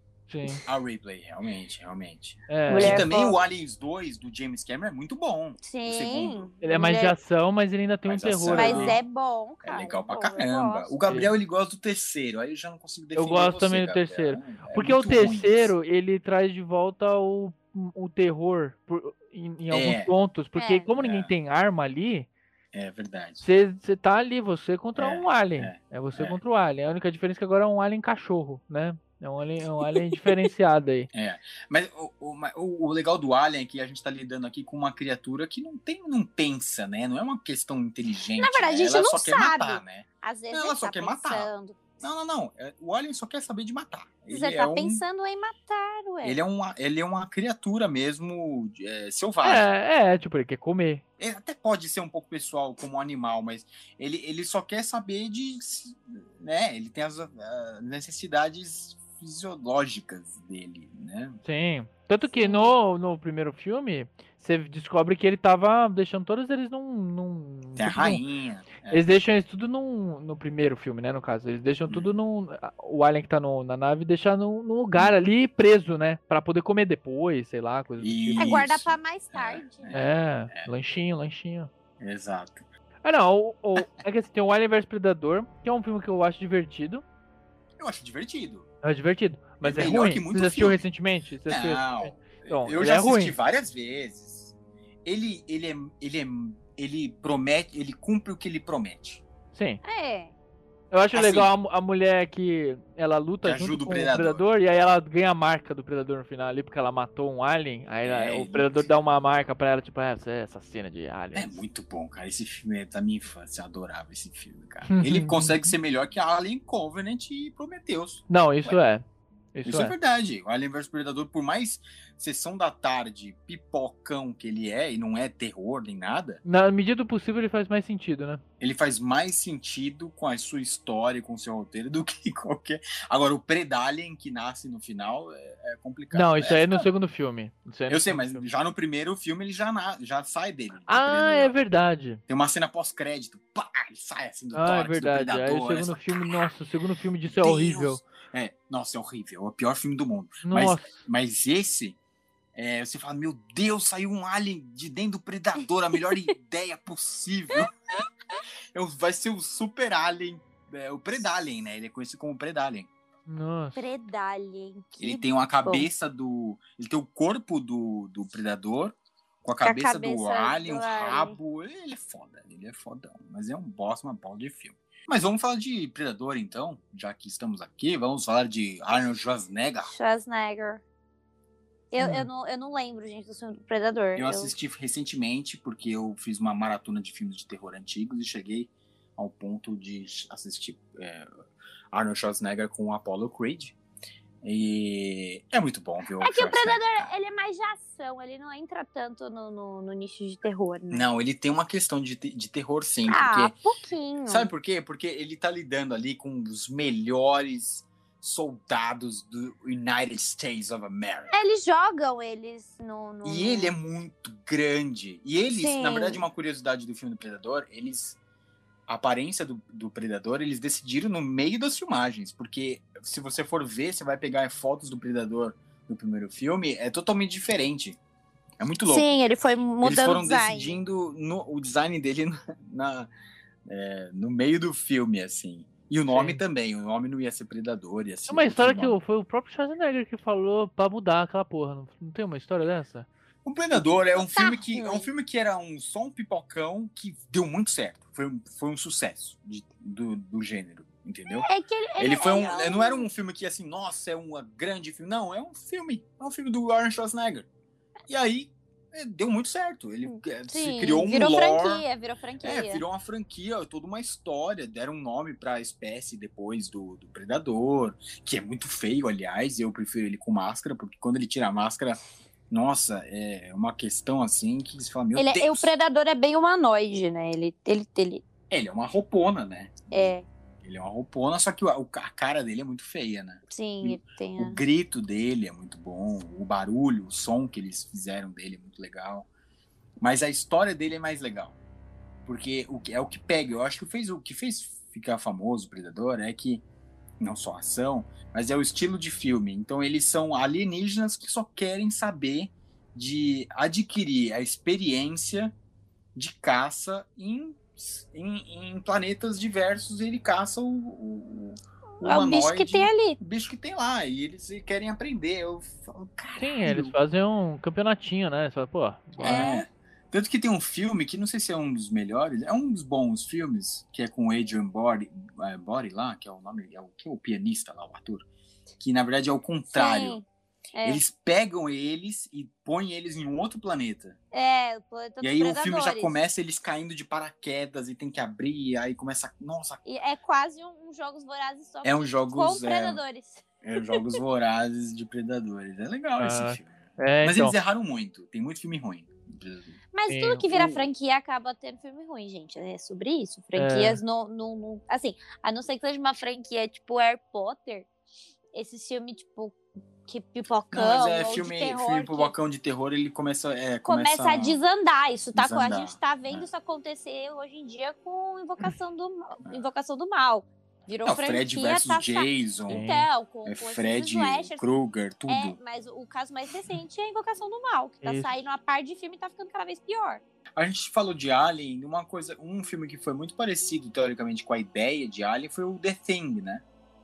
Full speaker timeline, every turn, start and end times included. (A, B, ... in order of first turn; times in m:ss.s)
0:00.3-0:00.6 A
0:00.6-0:06.5 B
0:02.5-0:03.1 A
0:02.7-0:03.4 C
0:05.6-0:07.1 C
0:06.6-0:09.0 A
0:08.0-0:09.0 B
0:08.5-0:10.9 C
0:09.6-0:15.7 B
0:11.1-0:11.3 A
0:13.1-0:22.3 A
0:19.7-0:20.1 B
0:20.6-0:20.9 C
0:21.0-0:21.3 B
0:22.7-0:23.4 B
0:23.4-0:31.1 A
0:25.0-0:26.4 B
0:31.1-0:45.0 B
0:38.4-0:41.8 C
0:44.3-0:46.4 C
0:46.2-0:49.7 B
0:49.4-0:51.0 A
0:51.2-1:01.4 B
1:01.4-1:08.2 A
1:02.4-1:02.7 C
1:07.8-1:09.1 B
1:08.9-1:18.6 A
1:11.9-1:12.1 B
1:18.0-1:20.7 B
1:18.4-1:19.9 C
1:19.9-1:21.7 A
1:22.0-1:22.6 B
1:23.0-1:27.0 A
1:27.8-1:28.7 B
1:28.8-1:33.4 A
1:29.6-1:30.8 B
1:31.5-1:34.5 B
1:35.0-1:39.2 B
1:39.5-1:39.8 A
1:39.8-1:40.3 C
1:40.9-1:51.5 A
1:41.1-1:41.5 B
1:43.4-1:44.4 B
1:48.0-1:48.9 B
1:51.3-1:58.8 B
1:54.8-1:55.6 A
1:58.3-1:59.0 A
1:59.5-1:59.9 A
1:59.6-2:06.4 B
2:06.4-2:08.4 A
2:08.6-2:16.9 B
2:16.1-2:18.4 A
2:17.9-2:21.6 B
2:20.9-2:22.2 A
2:22.3-2:26.5 B
2:24.5-2:28.0 A
2:27.2-2:32.0 B
2:30.4-2:31.0 A
2:32.5-2:37.7 B
2:38.7-2:42.9 B
2:43.3-2:43.8 A
2:43.7-2:45.9 C
2:45.0-2:59.9 B
2:49.6-2:51.4 C
2:59.8-3:00.8 C
3:01.9-3:04.5 C
3:02.0-3:02.3 A
3:04.2-3:11.3 B
3:11.9-3:13.7 B
3:14.4-3:17.1 B
3:16.2-3:21.1 C
3:20.9-3:23.6 B
3:23.1-3:24.5 C
3:24.2-3:31.3 B
3:31.3-3:33.7 C
3:33.2-3:38.2 B
3:35.5-3:36.2 C
3:38.9-3:48.0 B
3:48.6-3:49.1 B
3:48.9-3:50.8 C
3:49.8-3:53.1 B
3:53.6-3:59.0 B
3:56.1-3:56.4 A
3:58.3-4:03.1 A
4:03.4-4:11.5 B
4:03.7-4:05.1 C
4:11.4-4:13.1 C
4:12.0-4:17.5 B
4:18.1-4:21.8 B
4:20.0-4:22.8 C
4:22.4-4:35.7 B
4:35.1-4:38.2 C
4:38.5-4:49.3 B
4:39.9-4:40.2 C
4:43.5-4:44.6 C
4:50.0-4:51.6 B
4:52.2-4:56.6 B
4:57.2-5:05.5 B
5:06.1-5:16.9 B
5:12.0-5:13.2 C
5:16.4-5:19.6 A
5:19.2-5:19.6 C
5:19.2-5:28.2 B
5:28.8-5:30.2 B
5:29.7-5:31.0 C
5:30.8-5:34.2 B
5:34.3-5:36.1 C
5:35.2-5:39.8 B
5:39.8-5:44.2 C
5:41.8-5:43.0 B
5:43.6-5:49.8 B
5:46.2-5:47.5 A
5:49.9-5:57.9 C
5:50.1-5:50.5 A
5:50.5-5:50.8 B
5:53.5-5:54.0 A
5:58.5-6:02.3 C
6:00.7-6:04.6 B
6:03.8-6:14.6 C
6:05.3-6:06.5 B
6:11.0-6:12.8 B
6:12.7-6:13.1 A
6:13.4-6:15.6 B
6:15.3-6:20.2 C
6:18.0-6:18.3 A
6:20.6-6:26.6 B